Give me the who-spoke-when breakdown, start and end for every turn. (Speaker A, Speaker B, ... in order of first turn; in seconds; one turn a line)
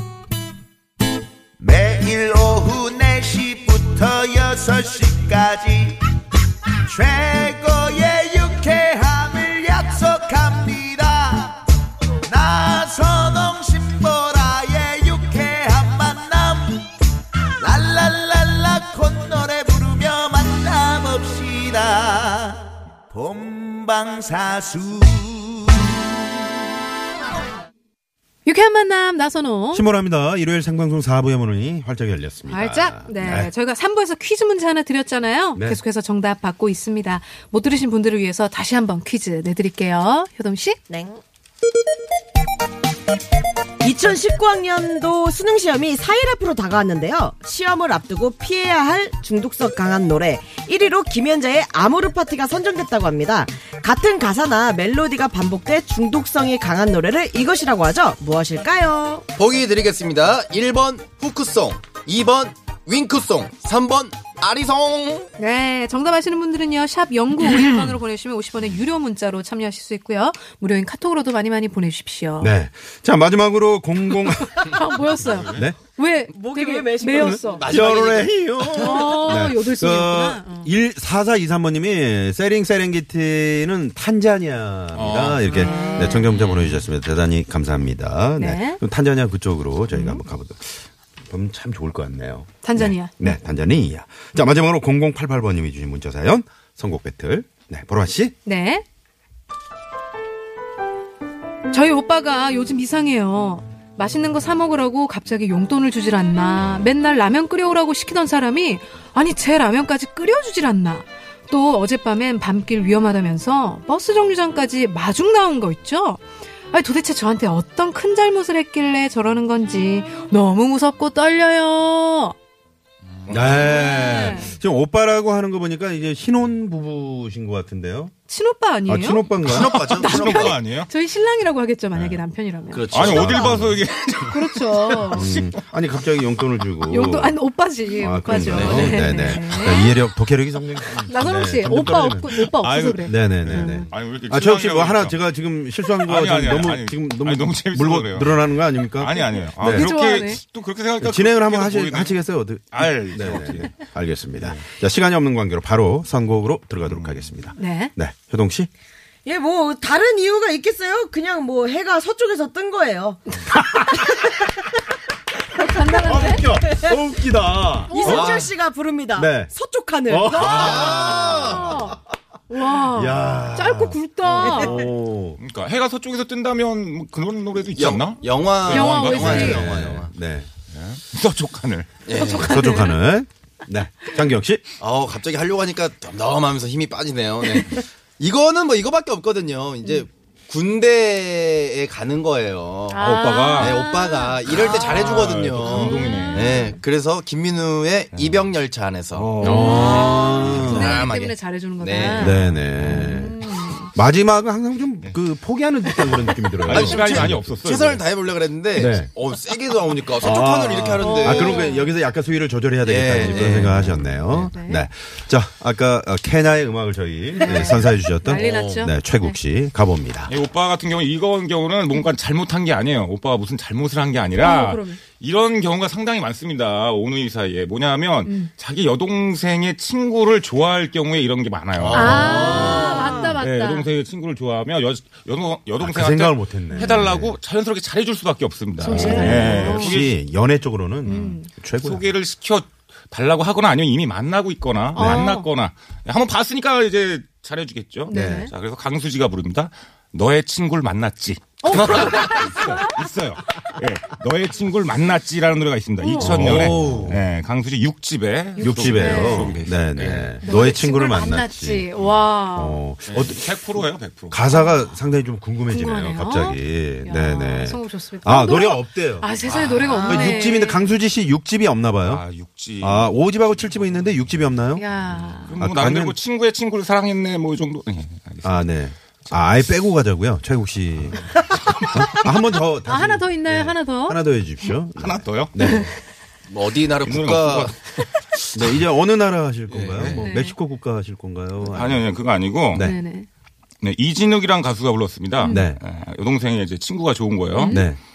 Speaker A: 1.6-6.0
Speaker A: 6.8-11.6
Speaker A: 12.2-16.9
Speaker A: 17.6-26.4
Speaker B: 28.4-29.9
Speaker C: 29.7-33.5
Speaker B: 32.5-40.8
Speaker D: 40.9-41.2
Speaker D: 43.8-59.2
Speaker E: 59.4-65.3
Speaker B: 65.4-72.6
Speaker C: 72.4-74.8
Speaker B: 74.3-77.7
Speaker F: 75.2-75.7
Speaker D: 76.3-77.7
Speaker E: 77.5-78.7
Speaker C: 77.7-98.3
Speaker B: 78.7-80.7
Speaker F: 84.9-86.8
Speaker B: 88.4-88.8
Speaker B: 89.9-90.2
Speaker B: 92.6-93.4
Speaker B: 98.5-98.8
Speaker B: 101.7-122.3
Speaker F: 123.2-124.0
Speaker C: 123.3-128.1
Speaker B: 123.7-124.6
Speaker B: 128.3-132.9
Speaker C: 128.9-129.7
Speaker E: 129.4-130.6
Speaker F: 129.5-130.9
Speaker C: 131.9-133.8
Speaker F: 132.9-135.6
Speaker B: 134.3-135.3
Speaker C: 135.1-137.4
Speaker B: 136.9-140.0
Speaker C: 138.0-142.4
Speaker E: 138.4-139.3
Speaker B: 141.0-143.8
Speaker F: 142.4-145.2
Speaker C: 143.1-149.9
Speaker F: 145.9-152.2
Speaker B: 149.7-150.4
Speaker C: 151.0-158.7
Speaker F: 152.7-154.6
Speaker F: 156.8-157.3
Speaker B: 157.6-157.9
Speaker D: 159.2-163.3
Speaker C: 163.5-164.0
Speaker B: 165.6-166.4
Speaker C: 166.0-168.5
Speaker D: 166.2-167.0
Speaker D: 167.9-171.1
Speaker B: 167.9-168.5
Speaker C: 169.1-169.5
Speaker C: 170.1-171.8
Speaker E: 170.3-171.8
Speaker B: 170.8-174.8
Speaker C: 172.7-175.4
Speaker D: 174.4-174.9
Speaker F: 175.4-179.5
Speaker E: 177.8-180.1
Speaker B: 178.7-179.6
Speaker C: 179.1-180.5
Speaker F: 180.7-182.1
Speaker E: 182.1-182.7
Speaker B: 182.1-183.0
Speaker C: 182.3-184.7
Speaker E: 184.8-202.6
Speaker B: 192.9-194.8
Speaker F: 193.0-193.8
Speaker F: 194.4-196.6
Speaker B: 195.6-196.8
Speaker F: 198.1-198.5
Speaker F: 199.1-200.8
Speaker C: 199.4-201.0
Speaker B: 199.4-203.9
Speaker C: 202.2-203.4
Speaker C: 203.9-207.6
Speaker F: 206.6-208.1
Speaker E: 206.7-211.7
Speaker C: 208.8-209.1
Speaker C: 210.2-220.3
Speaker B: 211.0-211.9
Speaker E: 212.8-214.1
Speaker B: 213.3-213.8
Speaker B: 214.4-214.9
Speaker B: 217.3-219.4
Speaker E: 218.3-218.8
Speaker F: 220.3-240.2
Speaker B: 224.4-225.0
Speaker B: 228.2-228.5
Speaker E: 231.8-233.4
Speaker B: 231.9-233.9
Speaker D: 232.9-233.2
Speaker C: 235.8-237.4
Speaker B: 238.8-240.0
Speaker C: 238.8-242.1
Speaker B: 241.1-241.5
Speaker F: 241.1-260.4
Speaker B: 244.9-245.5
Speaker C: 245.0-245.3
Speaker B: 248.1-248.5
Speaker C: 248.1-248.5
Speaker B: 251.6-252.9
Speaker B: 256.0-256.7
Speaker C: 256.2-257.2
Speaker B: 258.6-259.6
Speaker C: 258.6-261.9
Speaker B: 260.4-262.8
Speaker F: 262.0-262.2
Speaker C: 262.5-263.6
Speaker F: 263.1-264.4
Speaker C: 264.3-269.4
Speaker B: 264.5-265.0
Speaker B: 265.7-270.9
Speaker F: 269.5-270.5
Speaker C: 269.9-272.2
Speaker F: 272.0-274.4
Speaker C: 272.8-274.9
Speaker B: 274.8-275.5
Speaker F: 275.1-279.4
Speaker C: 275.6-276.2
Speaker C: 278.4-285.9
Speaker F: 281.5-282.0
Speaker B: 282.8-284.2
Speaker F: 285.0-285.8
Speaker B: 285.6-285.9
Speaker E: 286.5-287.8
Speaker F: 287.0-288.1
Speaker C: 288.5-292.1
Speaker E: 289.7-290.3
Speaker F: 289.9-290.2
Speaker B: 290.2-290.6
Speaker F: 291.7-292.9
Speaker B: 292.8-293.3
Speaker F: 293.8-297.9
Speaker B: 295.4-295.7
Speaker C: 295.5-295.8
Speaker B: 297.5-297.9
Speaker C: 297.7-298.0